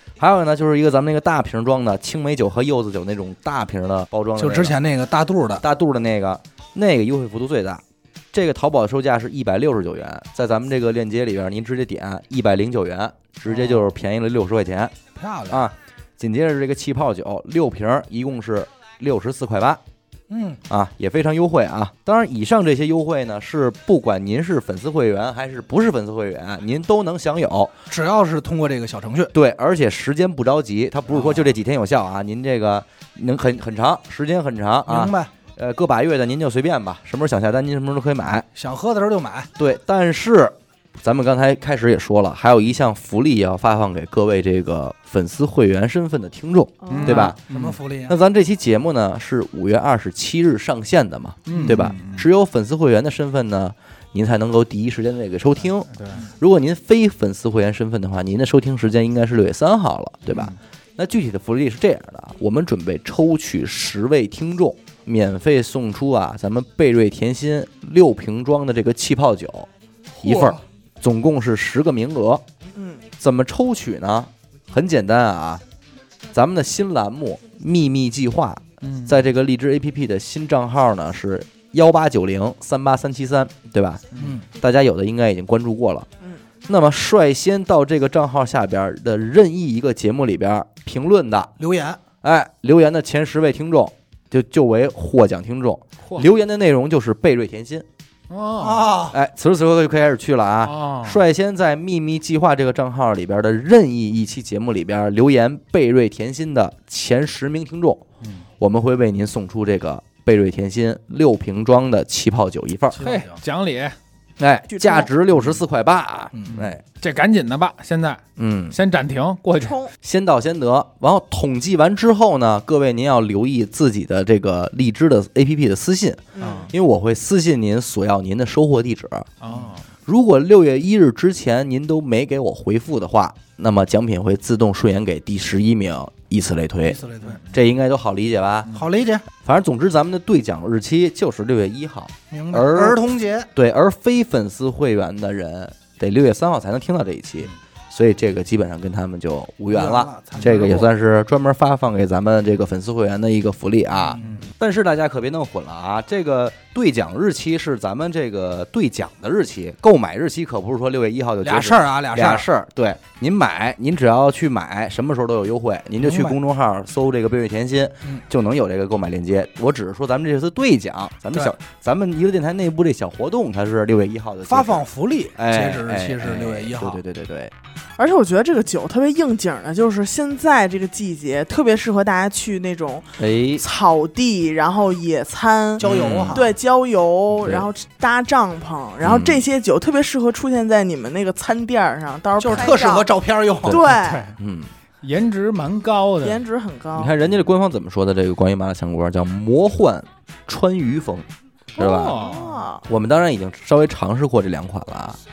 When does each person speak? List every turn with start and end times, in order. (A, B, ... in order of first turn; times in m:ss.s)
0:00.2-0:04.8 A
0:04.4-0:05.6 B
0:05.6-0:14.9 A
0:15.2-0:15.6 B
0:15.5-0:19.8 A
0:20.3-0:20.6 B
0:20.7-0:27.7 A
0:27.9-0:29.3 B
0:29.3-0:38.5 A
0:31.1-0:31.5 B
0:34.9-0:35.3 B
0:38.6-0:39.5 B
0:39.6-0:47.4 A
0:46.8-0:47.3 C
0:46.9-0:47.8 D
0:47.1-0:48.2 B
0:48.1-1:09.7 A
0:51.5-0:52.3 D
0:51.5-0:51.9 B
0:55.9-0:56.3 D
1:00.3-1:00.6 D
1:10.2-1:12.4 A
1:10.2-1:10.6 D
1:12.8-1:13.0 C
1:13.2-1:15.6 A
1:16.3-1:26.1 A
1:18.8-1:19.2 D
1:24.2-1:24.4 B
1:26.7-1:31.5 A
1:31.6-1:32.0 B
1:32.2-1:37.9 A
1:38.3-1:39.0 D
1:38.6-1:39.2 B
1:39.1-1:48.0 A
1:40.6-1:41.2 D
1:48.2-1:48.5 D
1:48.6-1:53.0 A
1:52.9-1:53.4 B
1:53.0-1:54.0 D
1:54.4-1:56.8 A
1:54.7-1:55.1 C
1:56.3-1:56.6 B
1:56.5-1:59.8 D
1:58.4-1:58.8 A
1:59.6-1:59.9 C
2:00.0-2:09.3 A
2:06.4-2:06.7 C
2:06.4-2:06.7 D
2:09.4-2:09.8 D
2:10.1-2:17.0 A
2:16.9-2:17.4 B
2:17.5-2:18.7 A
2:18.7-2:19.3 B
2:19.4-2:23.0 A
2:22.3-2:23.5 B
2:23.6-2:57.5 A
2:29.7-2:30.9 B
2:30.3-2:30.8 D
2:34.1-2:34.4 B
2:41.4-2:42.5 B
2:46.0-2:46.4 B
2:54.5-2:57.0 B
2:58.0-3:13.1 C
3:03.2-3:03.6 A
3:05.8-3:06.5 B
3:05.8-3:06.5 A
3:07.4-3:07.7 A
3:09.0-3:09.4 A
3:12.4-3:13.8 B
3:13.6-3:14.7 A
3:13.7-3:14.3 C
3:13.8-3:14.4 D
3:15.0-3:16.4 D
3:16.2-3:17.2 C
3:17.0-3:25.2 A
3:21.8-3:22.4 D
3:21.8-3:22.8 C